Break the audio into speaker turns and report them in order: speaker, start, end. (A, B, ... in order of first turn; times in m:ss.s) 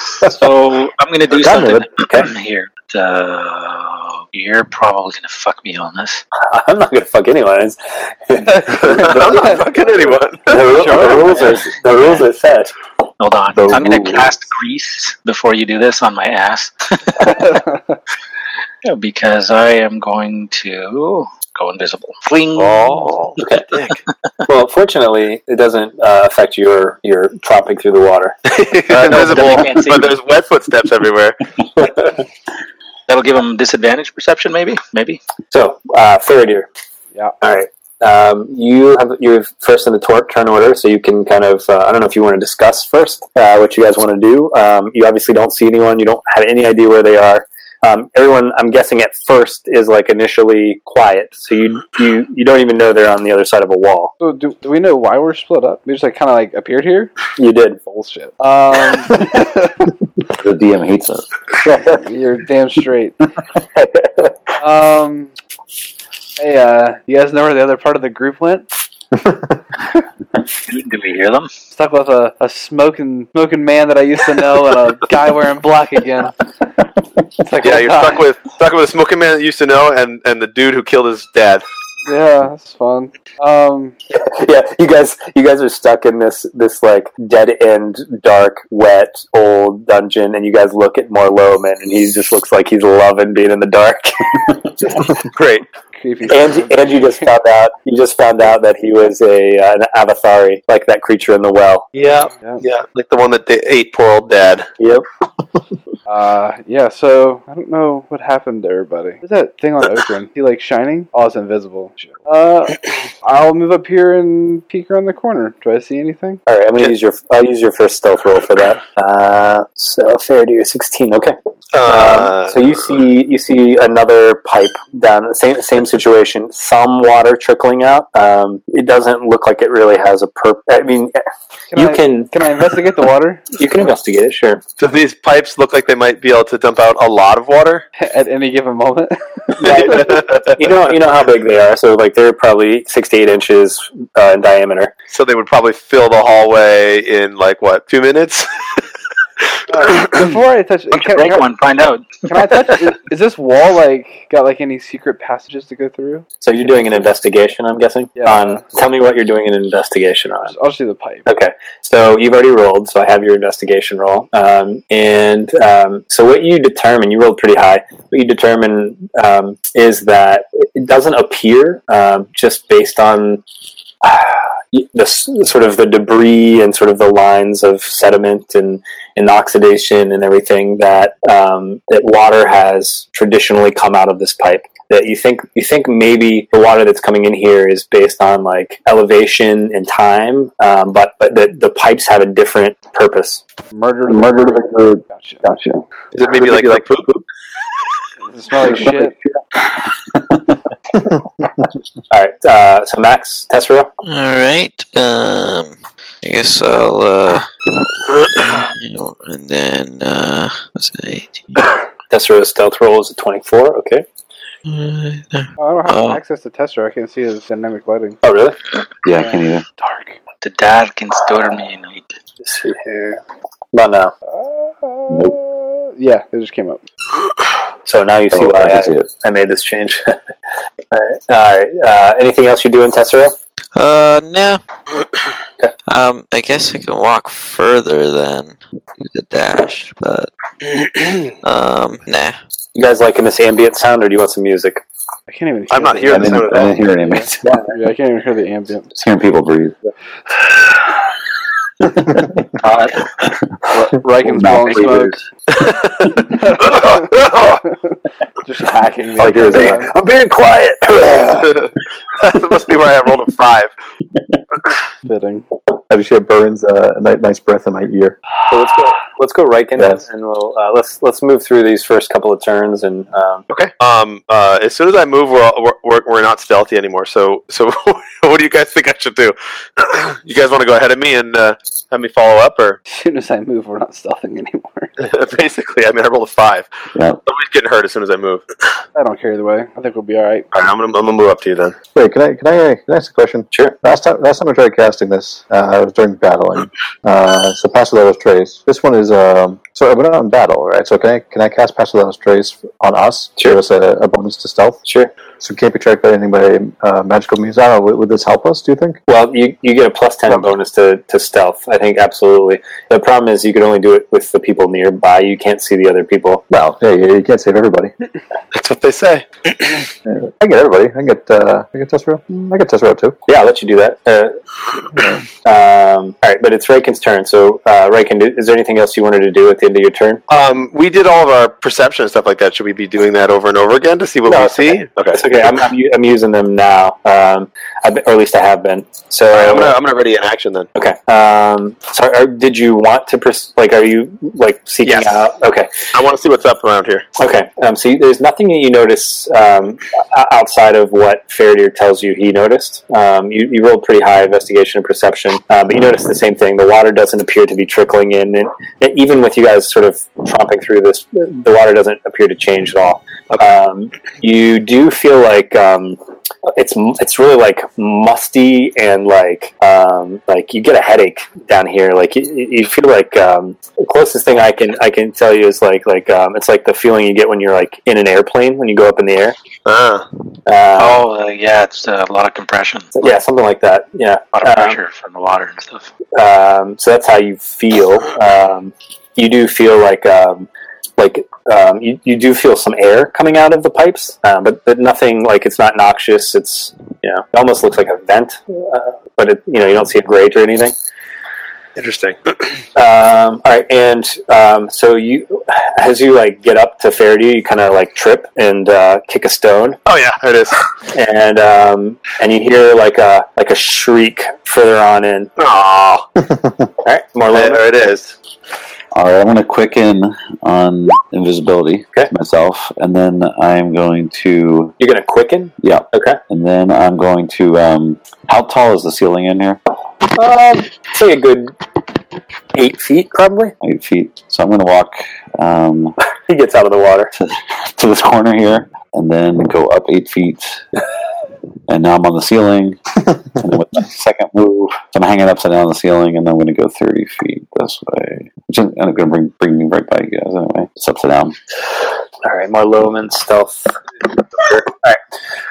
0:00.3-0:06.2 A
0:01.3-0:02.3 B
0:06.4-0:07.8 B
0:08.3-0:09.6 B
0:08.4-0:11.3 C
0:10.5-0:12.7 B
0:10.8-0:11.6 D
0:13.2-0:17.4 A
0:13.6-0:14.3 E
0:18.8-0:23.1 A
0:22.6-0:24.0 C
0:23.4-0:23.7 B
0:24.5-0:28.4 B
0:28.4-0:31.4 C
0:28.9-0:30.2 A
0:31.8-0:32.1 B
0:33.1-0:35.2 A
0:35.5-0:36.7 B
0:37.4-0:54.1 B
0:54.2-0:57.1 D
0:57.4-0:57.8 B
0:57.8-0:59.8 D
1:00.3-1:01.3 F
1:01.8-1:03.2 D
1:04.6-1:05.3 D
1:06.4-1:08.7 D
1:10.6-1:11.5 A
1:11.7-1:16.4 D
1:17.4-1:18.2 D
1:17.6-1:21.7 C
1:22.0-1:24.0 D
1:24.1-1:35.1 B
1:35.2-1:35.6 C
1:36.0-1:37.3 D
1:36.3-1:41.9 B
1:41.9-1:44.7 C
1:44.8-1:45.0 B
1:46.0-1:56.4 D
1:56.5-2:11.2 B
2:01.7-2:02.6 C
2:11.7-2:13.4 D
2:11.7-2:12.3 B
2:13.5-2:14.6 B
2:14.8-2:17.8 C
2:18.0-2:19.8 D
2:19.6-2:20.6 C
2:19.6-2:24.9 B
2:25.1-2:28.8 C
2:29.7-2:31.4 D
2:30.9-2:32.2 A
2:32.2-2:36.9 D
2:36.4-2:40.5 B
2:38.2-2:38.6 D
2:40.4-2:41.3 D
2:41.2-2:53.4 B
2:54.0-3:13.4 B
3:13.7-3:15.4 D
3:14.1-3:15.8 F
3:16.1-3:17.2 C
3:18.2-3:19.2 D
3:22.1-3:23.9 B
3:24.0-3:31.6 G
3:32.1-3:34.0 B
3:34.6-3:36.2 G
3:35.6-3:38.2 D
3:38.2-3:38.6 B
3:39.0-3:39.6 F
3:39.2-3:40.2 D
3:40.4-3:42.1 A
3:42.4-3:43.2 B
3:43.7-3:44.1 B
3:44.3-3:46.8 D
3:45.1-3:45.3 F
3:47.8-3:50.2 B
3:48.3-3:49.1 F
3:50.9-3:53.3 B
3:53.7-3:54.6 G
3:55.9-4:02.4 G
4:02.7-4:04.8 B
4:05.3-4:08.9 D
4:05.7-4:06.8 C
4:06.1-4:07.6 F
4:08.9-4:09.8 F
4:13.7-4:15.2 D
4:14.1-4:15.2 F
4:16.2-4:19.9 D
4:16.7-4:17.4 C
4:19.2-4:19.8 E
4:19.8-4:23.7 C
4:25.0-4:25.4 D
4:25.9-4:28.2 E
4:28.5-4:33.4 B
4:29.8-4:30.0 E
4:33.5-4:42.8 C
4:42.9-4:44.9 D
4:45.0-4:46.7 C
4:47.2-4:48.4 C
4:48.9-4:50.5 D
4:50.5-4:51.8 C
4:51.9-5:04.8 E
5:04.8-5:05.1 B
5:05.4-5:09.0 E
5:09.1-5:16.4 B
5:16.5-5:17.9 E
5:18.5-5:19.5 C
5:20.0-5:23.2 E
5:23.3-5:24.4 B
5:25.4-5:30.2 B
5:30.3-5:35.2 C
5:34.3-5:39.8 B
5:39.3-5:40.7 C
5:40.7-5:45.8 B
5:44.8-5:45.2 C
5:45.9-5:47.0 C
5:47.2-6:19.4 B
6:19.6-6:20.0 C
6:20.4-6:21.0 B
6:20.8-6:23.1 A
6:23.0-6:24.8 B
6:24.4-6:25.9 A
6:26.1-6:40.7 B
6:41.8-6:42.4 C
6:42.7-6:49.8 B
6:49.8-6:50.6 C
6:50.9-6:55.3 B
6:55.4-6:56.1 C
6:56.8-6:57.6 B
6:57.3-6:58.1 C
6:58.9-7:04.8 F
7:04.8-7:06.2 B
7:05.6-7:09.6 F
7:10.1-7:11.5 B
7:12.5-7:13.5 B
7:13.6-7:16.0 F
7:16.3-7:17.1 B
7:17.2-7:20.6 F
7:21.7-7:31.4 F
7:32.2-7:33.7 B
7:34.4-7:35.0 B